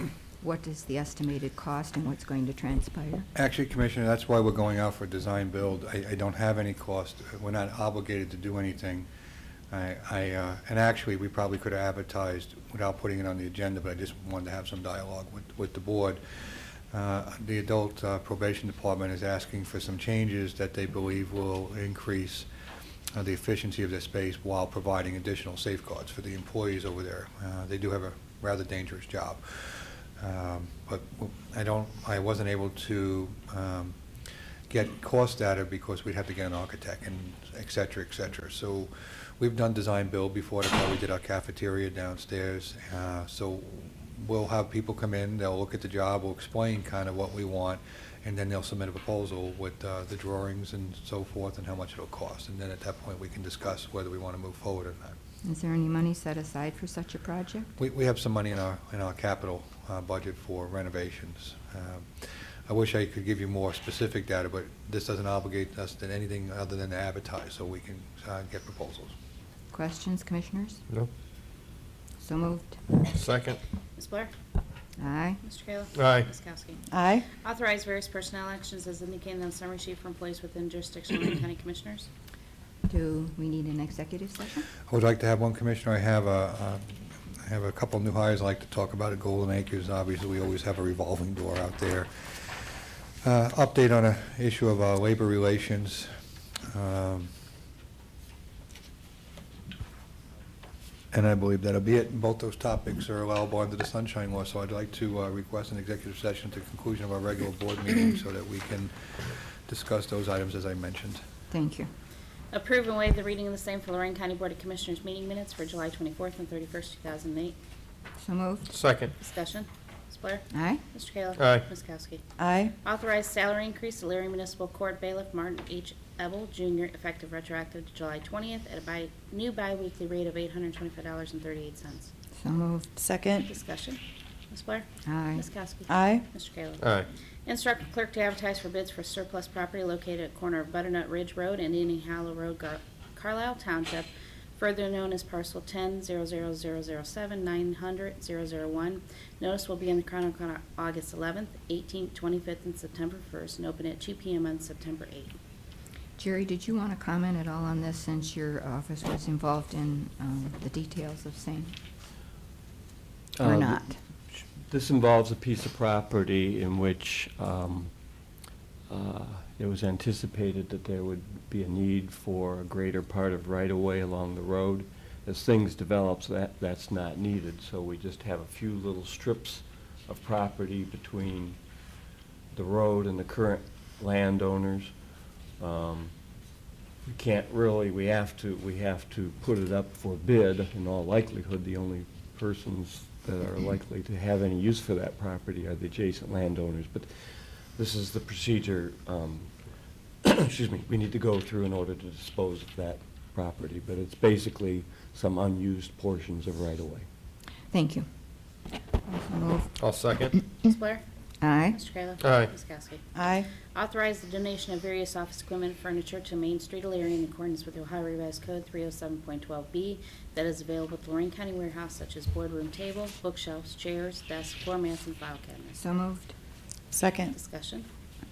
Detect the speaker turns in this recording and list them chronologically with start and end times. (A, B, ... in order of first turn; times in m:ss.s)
0:00.4-0:03.3 A
0:03.3-0:09.1 B
0:09.7-0:22.5 B
0:23.1-0:34.0 B
0:34.7-0:55.1 B
0:55.4-0:57.7 A
0:57.8-1:09.1 B
1:09.7-1:10.8 A
1:12.2-1:12.8 A
1:13.1-1:13.6 C
1:14.0-1:14.3 D
1:15.0-1:15.4 A
1:15.4-1:22.1 D
1:15.9-1:16.3 C
1:16.9-1:17.2 E
1:22.9-1:24.7 A
1:24.9-1:32.6 B
1:33.2-1:36.1 B
1:36.7-1:37.3 B
1:41.1-1:51.2 B
1:51.5-1:51.9 A
1:52.5-1:57.6 D
1:58.2-1:58.7 A
1:58.7-1:59.1 C
1:59.2-2:02.2 D
2:00.5-2:00.8 A
2:01.3-2:01.7 C
2:02.4-2:02.7 E
2:02.8-2:12.1 D
2:12.4-2:12.9 A
2:13.0-2:13.5 E
2:13.4-2:16.8 D
2:15.0-2:15.4 A
2:15.9-2:16.2 E
2:16.8-2:17.1 C
2:17.4-2:35.4 D
2:36.2-2:41.7 A
2:43.4-2:47.9 F
2:43.4-2:43.9 A
2:48.9-3:01.6 F
3:02.5-3:04.9 F
3:05.6-3:06.1 F
3:07.0-3:19.5 F
3:20.2-3:27.0 F
3:27.7-3:28.1 A
3:29.0-3:29.8 A
3:29.8-3:30.3 C
3:30.6-3:31.0 D
3:31.4-3:31.8 A
3:31.7-3:45.8 D
3:32.2-3:32.5 C
3:33.1-3:33.5 E
3:45.8-3:46.3 A
3:46.9-3:47.3 E
3:47.3-3:47.9 D